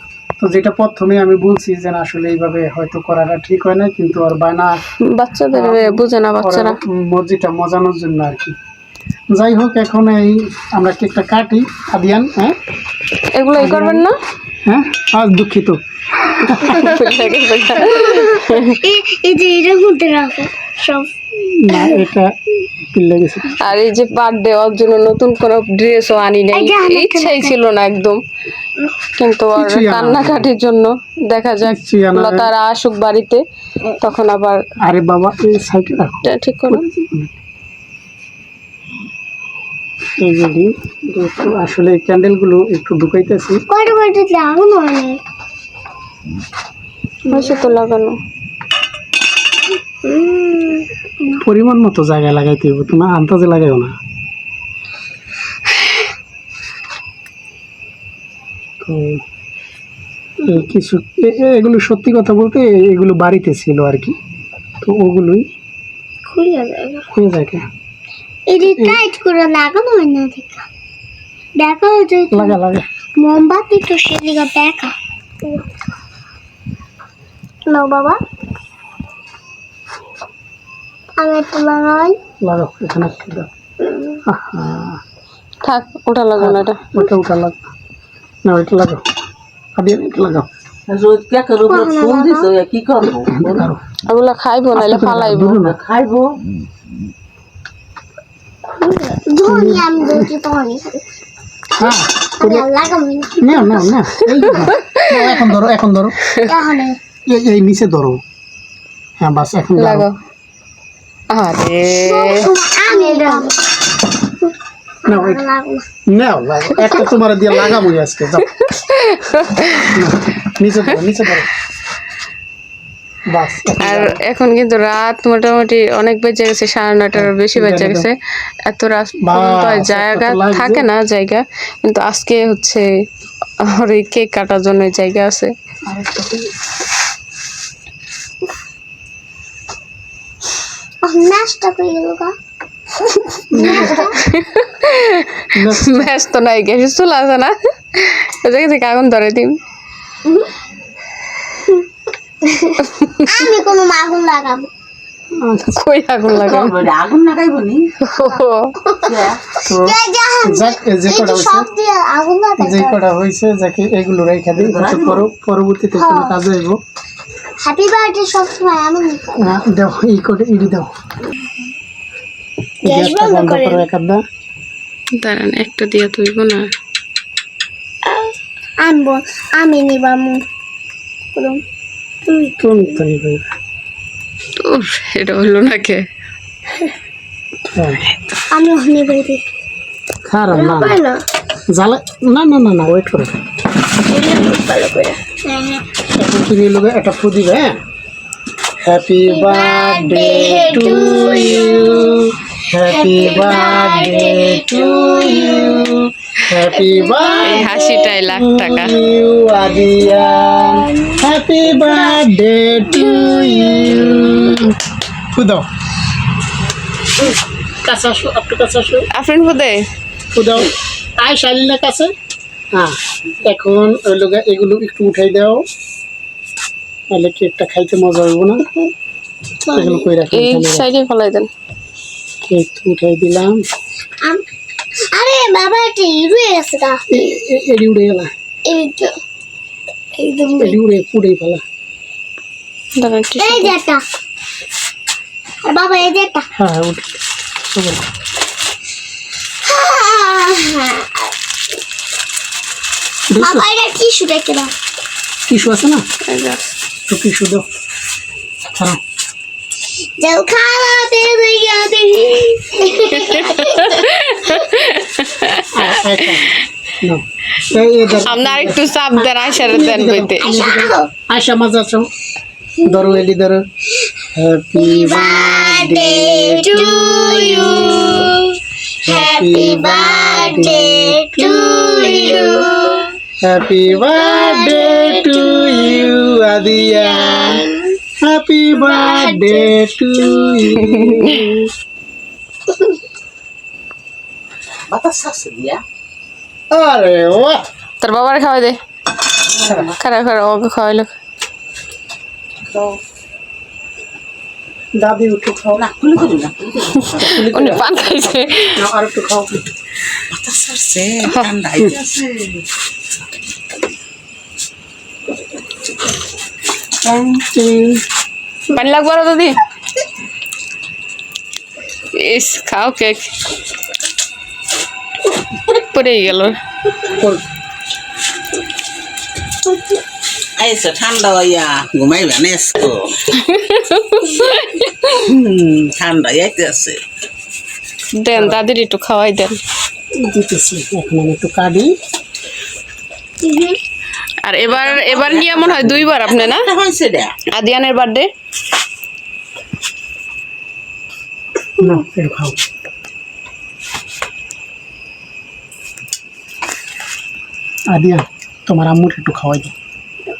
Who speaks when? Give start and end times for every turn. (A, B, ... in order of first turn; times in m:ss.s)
0:00.4-0:04.8 A
0:05.1-0:06.8 B
0:05.5-0:08.5 A
0:09.3-0:12.6 A
0:13.3-0:14.2 B
0:13.6-0:14.0 A
0:14.6-0:16.9 A
0:16.4-0:16.9 C
0:16.6-0:18.7 B
0:17.8-0:21.1 C
0:21.4-0:22.3 A
0:21.7-0:22.0 C
0:22.8-0:23.8 A
0:23.6-0:28.2 B
0:26.5-0:27.6 C
0:29.1-0:33.4 B
0:29.5-0:30.5 A
0:31.6-0:32.5 A
0:34.0-0:34.6 B
0:34.8-0:37.3 A
0:36.2-0:36.8 B
0:40.2-0:43.6 A
0:43.7-0:45.2 C
0:47.2-0:47.7 C
0:47.3-0:48.2 B
0:50.0-0:51.4 C
0:51.4-0:53.9 A
0:58.8-0:59.2 A
1:00.4-1:04.2 A
1:04.8-1:05.4 A
1:06.2-1:07.1 C
1:07.1-1:07.6 A
1:08.5-1:10.6 C
1:08.8-1:09.0 A
1:11.6-1:12.6 C
1:12.3-1:12.8 A
1:13.2-1:15.6 C
1:17.7-1:18.2 C
1:21.2-1:22.2 C
1:22.4-1:23.5 A
1:23.8-1:24.2 C
1:24.2-1:25.0 A
1:25.6-1:26.8 B
1:26.4-1:27.6 A
1:28.4-1:29.0 A
1:29.8-1:30.5 A
1:30.9-1:33.7 D
1:31.6-1:32.5 C
1:33.3-1:33.8 A
1:34.1-1:35.6 B
1:34.7-1:35.7 A
1:35.6-1:36.4 D
1:38.7-1:41.0 C
1:39.5-1:40.1 A
1:41.8-1:42.6 A
1:41.8-1:43.9 C
1:43.4-1:46.2 A
1:44.7-1:45.1 B
1:46.4-1:47.0 C
1:47.3-1:48.2 A
1:49.2-1:50.1 A
1:49.8-1:50.2 B
1:51.3-1:53.4 B
1:52.0-1:53.6 C
1:55.0-1:55.8 C
1:55.1-1:55.4 A
1:56.1-1:58.5 A
1:58.6-1:59.9 B
1:59.8-2:01.5 A
2:03.3-2:04.2 A
2:03.8-2:12.8 B
2:07.1-2:08.1 A
2:09.2-2:10.8 A
2:13.7-2:15.5 B
2:15.9-2:16.4 A
2:21.0-2:22.3 C
2:23.3-2:29.6 B
2:23.5-2:24.1 A
2:23.5-2:24.2 C
2:25.5-2:26.0 A
2:31.5-2:31.8 C
2:32.4-2:34.7 C
2:32.8-2:33.5 B
2:35.4-2:35.8 A
2:35.7-2:36.8 B
2:36.3-2:37.9 D
2:38.0-2:38.7 B
2:39.0-2:39.4 D
2:39.6-2:41.6 A
2:39.7-2:43.0 C
2:42.6-2:46.8 A
2:44.5-2:45.2 D
2:46.0-2:46.4 C
2:47.6-2:49.3 C
2:49.4-2:50.9 A
2:52.8-2:54.2 A
2:52.8-2:53.8 C
2:55.2-2:56.7 B
2:58.8-3:00.4 C
3:01.3-3:01.6 C
3:02.3-3:03.0 C
3:02.6-3:03.4 A
3:04.6-3:06.0 B
3:07.7-3:08.0 A
3:08.5-3:09.4 C
3:10.2-3:11.0 A
3:10.5-3:11.2 C
3:11.7-3:13.4 A
3:14.0-3:15.8 C
3:16.1-3:17.7 A
3:18.8-3:34.8 A
3:19.3-3:22.2 C
3:22.8-3:25.9 C
3:26.7-3:28.1 C
3:27.4-3:28.9 B
3:29.6-3:31.2 C
3:32.9-3:34.6 C
3:35.3-3:35.6 A
3:37.8-3:39.1 A
3:39.1-3:39.8 B
3:40.3-3:42.1 A
3:42.7-3:45.6 A
3:47.1-3:48.6 A
3:49.7-3:50.8 A
3:49.7-3:50.1 C
3:50.3-3:51.5 B
3:52.5-3:53.6 A
3:55.1-3:57.0 C
3:57.1-3:58.3 A
3:58.6-3:59.1 C
4:00.2-4:00.8 C
4:00.6-4:01.6 A
4:03.0-4:03.7 B
4:03.4-4:04.0 C
4:05.6-4:06.5 C
4:06.6-4:07.2 A
4:07.7-4:08.0 A
4:09.6-4:11.3 C
4:13.3-4:13.6 A
4:13.3-4:14.7 C
4:15.5-4:16.0 A
4:16.2-4:16.7 B
4:17.1-4:17.6 A
4:18.7-4:19.0 A
4:20.2-4:24.1 C
4:23.2-4:25.9 B
4:25.6-4:32.1 A
4:28.2-4:30.5 B
4:30.4-4:31.1 C
4:32.8-4:33.6 A
4:32.9-4:33.2 C
4:34.3-4:38.3 A
4:34.8-4:43.1 C
4:39.0-4:42.7 A
4:43.4-4:51.7 A
4:43.9-4:47.8 C
4:48.7-4:50.9 C
4:54.9-4:55.8 D
4:56.7-4:57.6 A
4:58.0-4:58.8 B
4:59.5-4:59.9 D
4:59.6-4:59.9 A
4:59.9-5:01.1 B
5:02.7-5:03.0 D
5:05.0-5:05.8 A
5:05.8-5:07.3 D
5:07.1-5:09.6 A
5:07.1-5:08.8 B
5:10.3-5:12.6 D
5:11.3-5:11.5 B
5:17.0-5:18.0 A
5:18.7-5:19.6 B
5:22.2-5:23.3 B
5:25.7-5:26.5 B
5:27.1-5:27.4 A
5:30.6-5:33.3 D
5:33.3-5:35.2 B
5:35.3-5:37.0 D
5:38.2-5:39.6 B
5:38.4-5:38.6 A
5:40.2-5:41.9 A
5:43.4-5:43.8 C
5:44.4-5:46.7 B
5:44.6-5:47.4 D
5:47.5-5:48.3 B
5:51.8-5:52.6 A
5:57.9-5:59.7 A